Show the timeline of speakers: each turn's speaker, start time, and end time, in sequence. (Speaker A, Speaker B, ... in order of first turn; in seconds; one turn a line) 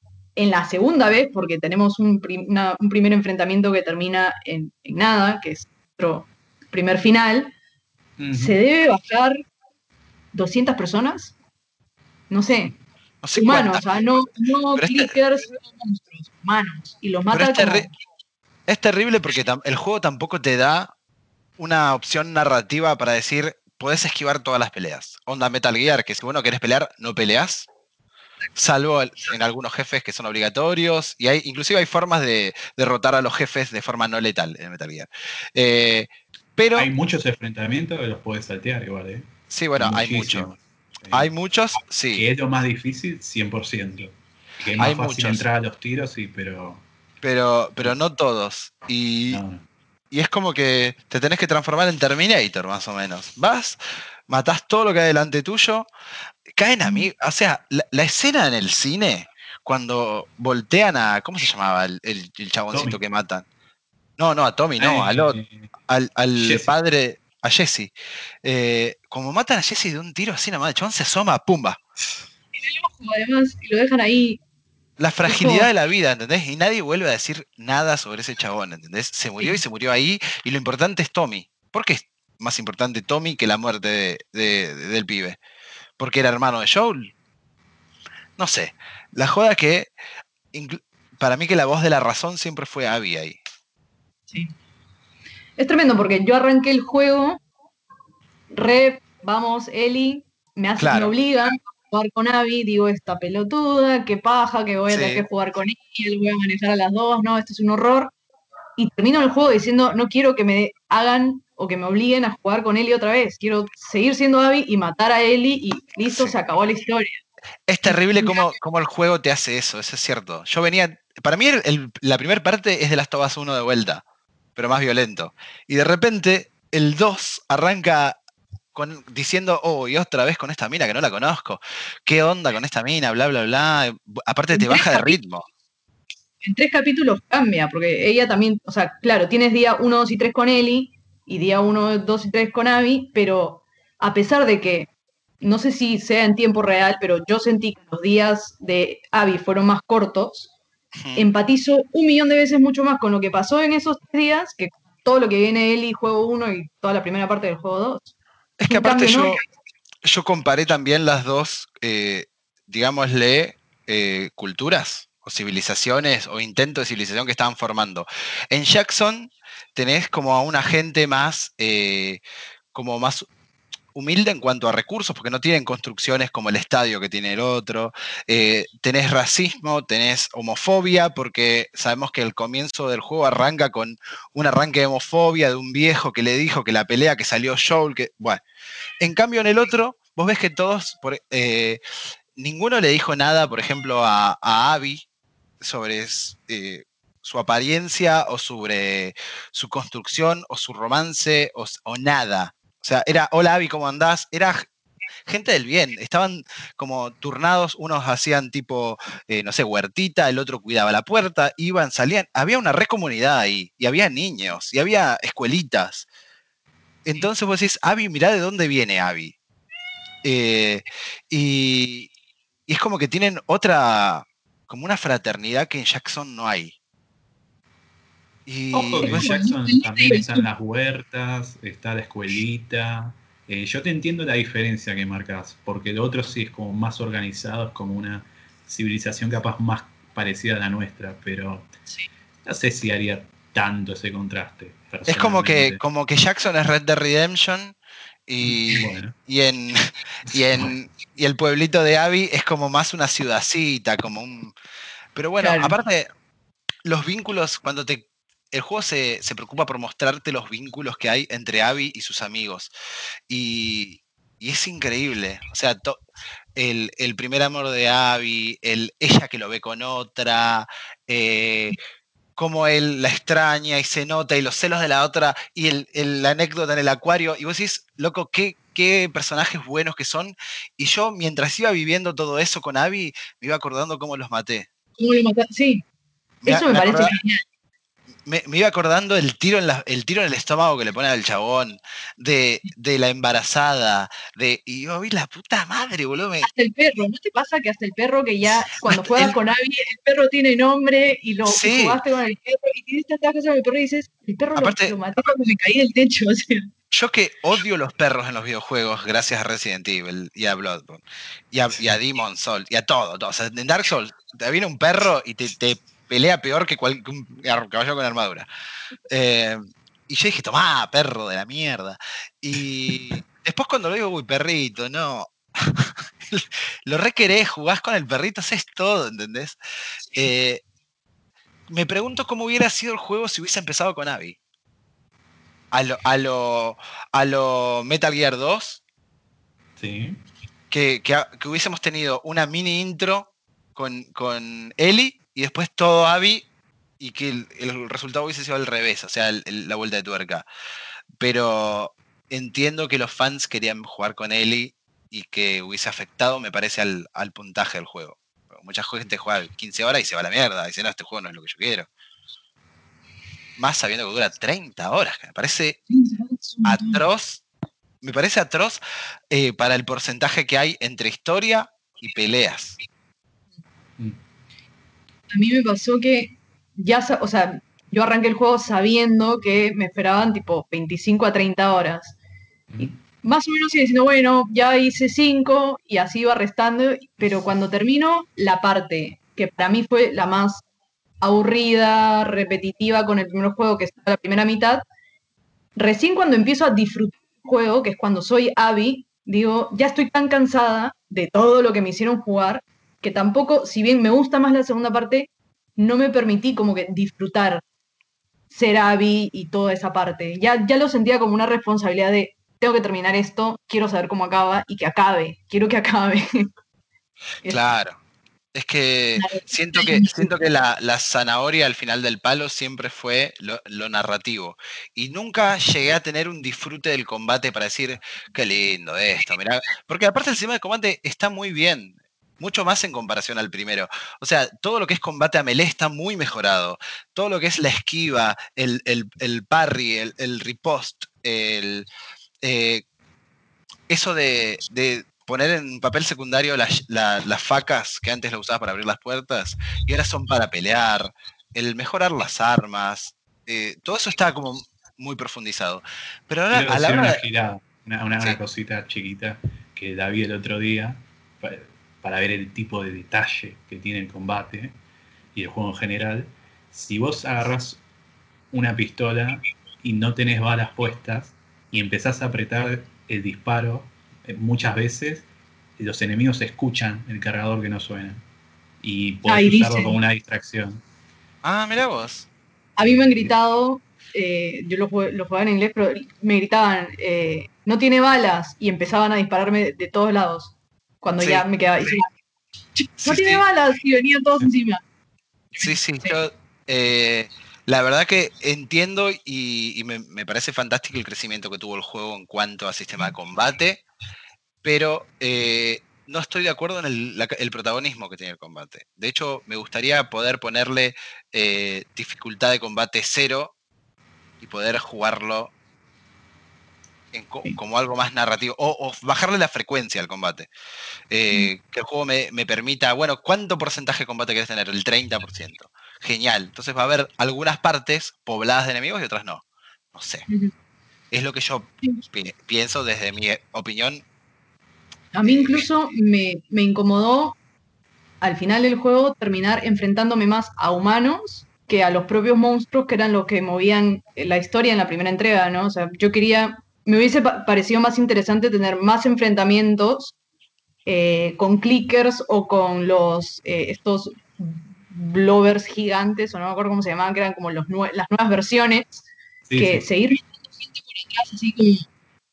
Speaker A: 0.3-7.5
Speaker B: 8.2-8.6
Speaker A: 8.3-9.4
Speaker A: 10.3-11.3
Speaker A: 12.3-12.7
Speaker C: 13.2-13.9
Speaker A: 13.3-17.9
Speaker C: 14.7-15.2
Speaker C: 17.3-17.9
Speaker C: 18.7-20.9
Speaker C: 21.6-27.7
Speaker C: 28.5-36.9
Speaker B: 36.8-41.3
Speaker C: 39.5-40.5
Speaker C: 41.1-42.2
Speaker B: 42.1-46.8
Speaker C: 44.8-45.4
Speaker C: 47.2-49.4
Speaker B: 49.3-49.6
Speaker C: 50.1-55.9
Speaker C: 56.5-63.4
Speaker B: 62.7-63.0
Speaker C: 64.2-67.9
Speaker B: 64.8-65.7
Speaker B: 66.3-66.7
Speaker C: 68.4-71.8
Speaker A: 72.5-74.4
Speaker C: 75.0-85.4
Speaker A: 75.2-75.7
Speaker C: 86.0-87.1
Speaker C: 88.4-89.9
Speaker C: 90.5-93.4
Speaker A: 95.6-97.4
Speaker A: 98.5-108.1
Speaker C: 100.8-101.1
Speaker C: 104.9-105.2
Speaker A: 108.8-117.2
Speaker C: 116.1-116.3
Speaker C: 117.7-124.0
Speaker A: 117.8-118.5
Speaker C: 124.5-128.2
Speaker C: 128.7-135.4
Speaker A: 134.5-135.2
Speaker A: 136.4-144.9
Speaker A: 145.4-150.5
Speaker C: 151.0-151.3
Speaker A: 151.1-158.1
Speaker C: 158.6-159.4
Speaker A: 158.7-159.4
Speaker C: 160.0-172.2
Speaker C: 172.7-173.3
Speaker C: 173.9-188.4
Speaker C: 189.0-191.8
Speaker C: 192.4-195.0
Speaker C: 195.6-204.7
Speaker C: 205.3-216.1
Speaker C: 217.0-219.3
Speaker C: 220.2-222.1
Speaker C: 222.7-226.7
Speaker C: 228.4-229.3
Speaker B: 228.7-241.7
Speaker A: 229.0-230.4
Speaker B: 242.4-245.8
Speaker C: 245.1-247.8
Speaker C: 248.3-254.5
Speaker B: 248.4-249.1
Speaker B: 250.3-250.7
Speaker C: 255.1-256.1
Speaker A: 255.4-255.7
Speaker C: 256.8-262.7
Speaker C: 263.3-266.0
Speaker C: 266.6-271.8
Speaker C: 272.4-284.7
Speaker A: 285.0-285.8
Speaker C: 286.4-287.1
Speaker A: 286.4-287.4
Speaker C: 288.2-296.5
Speaker A: 296.4-306.7
Speaker C: 298.4-299.3
Speaker C: 301.4-302.0
Speaker C: 304.6-304.9
Speaker C: 306.9-318.4
Speaker C: 319.1-329.6
Speaker C: 330.1-330.6
Speaker C: 331.7-334.4
Speaker C: 335.7-338.8
Speaker B: 339.8-340.2
Speaker C: 340.7-346.5
Speaker C: 347.0-350.4
Speaker C: 351.2-361.9
Speaker C: 363.6-365.8
Speaker A: 365.9-367.0
Speaker C: 366.6-367.4
Speaker C: 368.0-368.8
Speaker C: 369.3-372.8
Speaker A: 375.3-382.1
Speaker B: 382.7-382.9
Speaker A: 382.8-390.6
Speaker A: 391.2-394.8
Speaker A: 395.8-407.6
Speaker A: 408.5-416.5
Speaker C: 417.5-418.0
Speaker C: 418.5-441.9
Speaker A: 419.2-420.3
Speaker C: 442.4-442.8
Speaker C: 443.9-457.2
Speaker B: 456.5-464.8
Speaker B: 465.3-467.8
Speaker B: 468.5-475.2
Speaker B: 475.8-478.2
Speaker B: 478.8-480.8
Speaker A: 479.2-480.0
Speaker C: 481.4-482.2
Speaker A: 482.8-492.1
Speaker B: 482.9-483.3
Speaker C: 491.2-491.4
Speaker A: 492.8-494.8
Speaker C: 493.0-493.4
Speaker A: 495.6-496.1
Speaker C: 495.6-503.8
Speaker C: 504.6-513.5
Speaker C: 514.4-515.5
Speaker C: 517.1-520.5
Speaker C: 521.1-530.3
Speaker C: 531.1-534.0
Speaker A: 535.1-537.4
Speaker C: 535.2-535.6
Speaker A: 538.2-550.1
Speaker A: 550.9-559.0
Speaker B: 559.5-559.9
Speaker A: 559.6-561.9